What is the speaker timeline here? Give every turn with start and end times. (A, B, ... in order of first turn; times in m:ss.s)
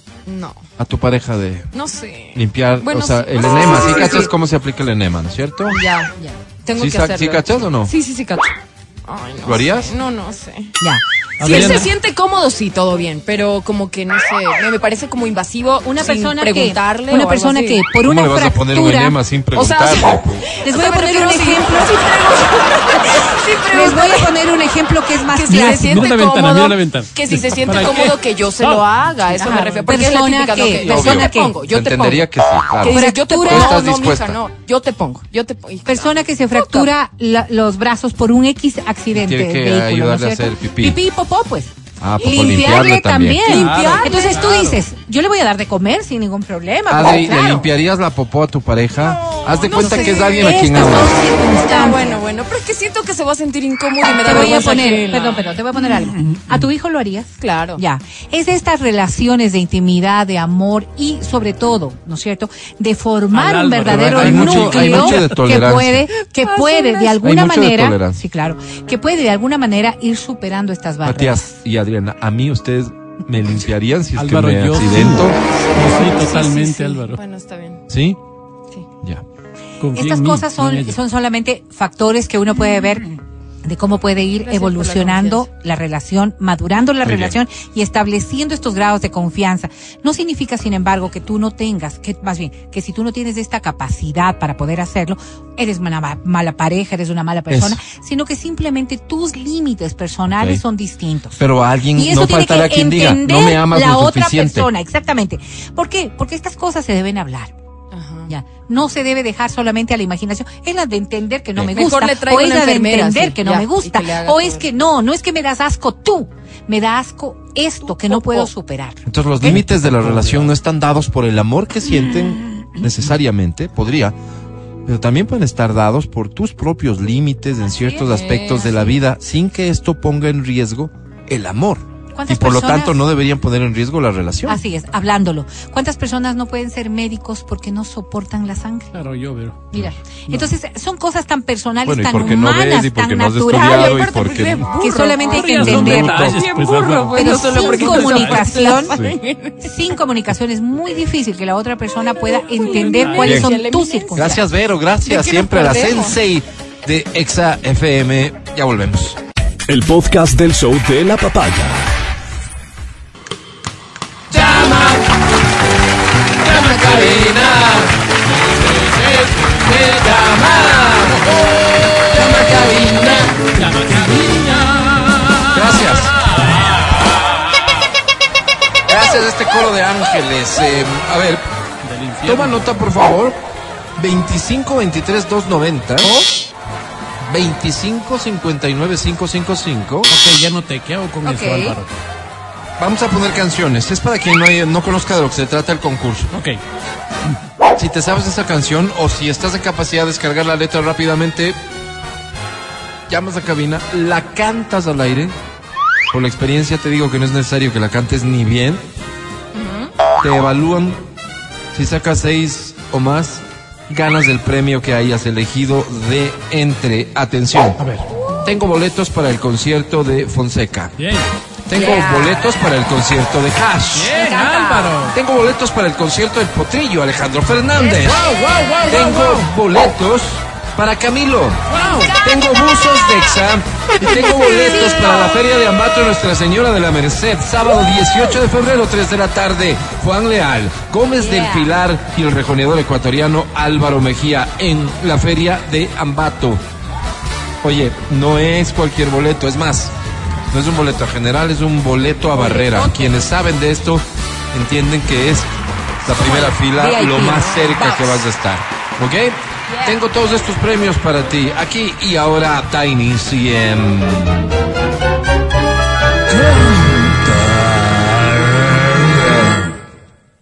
0:00.2-0:00.6 A
0:00.8-0:01.7 B
0:01.7-0:04.3 A
0:02.3-0:05.8 B
0:05.7-0:10.7 A
0:06.7-0:07.9 B
0:09.4-0:09.9 B
0:10.8-0:11.9 C
0:11.4-0:11.9 D
0:11.4-0:17.9 A
0:15.8-0:19.2 C
0:18.0-0:20.4 B
0:19.5-0:24.3 A
0:20.6-0:22.3 C
0:23.7-0:26.1 C
0:25.3-0:32.3 A
0:25.4-0:30.0 D
0:29.4-0:31.6 C
0:30.7-0:34.4 B
0:32.8-0:33.8 C
0:32.8-0:36.9 A
0:35.8-0:47.6 C
0:39.1-0:41.0 B
0:42.0-0:43.7 B
0:43.4-0:44.8 D
0:43.6-0:44.5 A
0:46.9-0:51.2 B
0:47.1-0:47.6 A
0:49.6-0:55.4 A
0:49.7-0:52.2 C
0:54.1-1:11.5 C
0:56.3-0:56.6 D
0:57.4-0:57.8 A
1:03.3-1:05.4 D
1:03.9-1:06.1 B
1:06.1-1:07.2 A
1:07.2-1:08.2 B
1:11.0-1:15.4 B
1:14.2-1:17.2 D
1:15.4-1:17.8 A
1:17.9-1:18.2 B
1:19.8-1:21.0 D
1:19.9-1:23.0 C
1:23.6-1:41.4 C
1:24.4-1:25.5 A
1:27.0-1:27.4 B
1:37.5-1:37.8 B
1:40.3-1:40.6 B
1:41.4-1:44.7 B
1:41.9-1:47.5 C
1:47.9-1:48.3 A
1:48.3-1:59.0 C
1:51.6-1:54.6 A
1:57.8-1:58.5 A
1:59.1-2:04.2 B
1:59.4-2:00.5 D
2:04.8-2:14.6 B
2:07.8-2:09.0 A
2:12.1-2:13.0 C
2:14.4-2:18.9 C
2:18.9-2:20.5 D
2:19.7-2:26.5 C
2:21.8-2:24.7 B
2:23.5-2:25.6 A
2:25.2-2:28.8 D
2:25.6-2:26.4 B
2:26.2-2:29.6 A
2:27.1-2:29.0 C
2:28.9-2:29.2 B
2:29.6-2:34.4 C
2:32.3-2:34.4 A
2:32.7-2:33.4 D
2:33.2-2:33.5 B
2:34.1-2:39.2 B
2:35.0-2:36.2 A
2:39.7-2:41.9 E
2:44.3-2:45.0 D
2:44.4-2:45.0 A
2:46.4-2:47.6 D
2:46.4-2:47.7 A
2:46.7-2:47.9 B
2:48.3-2:50.9 D
2:50.1-2:51.2 B
2:52.2-2:53.1 B
2:52.4-2:53.5 A
2:53.4-2:57.3 D
2:55.5-2:56.2 B
2:58.9-3:01.4 B
3:01.8-3:02.8 D
3:02.2-3:03.4 B
3:04.0-3:06.1 B
3:07.2-3:10.1 B
3:10.1-3:11.9 D
3:11.2-3:11.8 A
3:12.8-3:16.3 B
3:16.3-3:16.6 D
3:17.8-3:21.6 B
3:23.1-3:25.4 B
3:26.1-3:28.8 B
3:29.5-3:29.9 A
3:30.2-3:31.0 B
3:31.7-3:37.8 B
3:37.8-3:38.1 D
3:38.4-3:40.9 B
3:41.0-3:41.3 D
3:41.7-3:44.1 B
3:41.7-3:42.4 A
3:43.9-3:45.2 D
3:44.1-3:45.0 C
3:45.1-3:51.7 B
3:47.8-3:49.5 D
3:51.7-3:52.1 D
3:51.9-3:52.3 A
3:52.2-4:06.6 B
3:54.6-3:55.1 C
4:01.2-4:01.7 A
4:07.6-4:09.9 B
4:10.5-4:15.5 B
4:12.3-4:13.3 A
4:16.0-4:24.5 B
4:16.1-4:18.3 A
4:19.7-4:20.0 A
4:26.3-4:29.6 D
4:29.2-4:29.5 B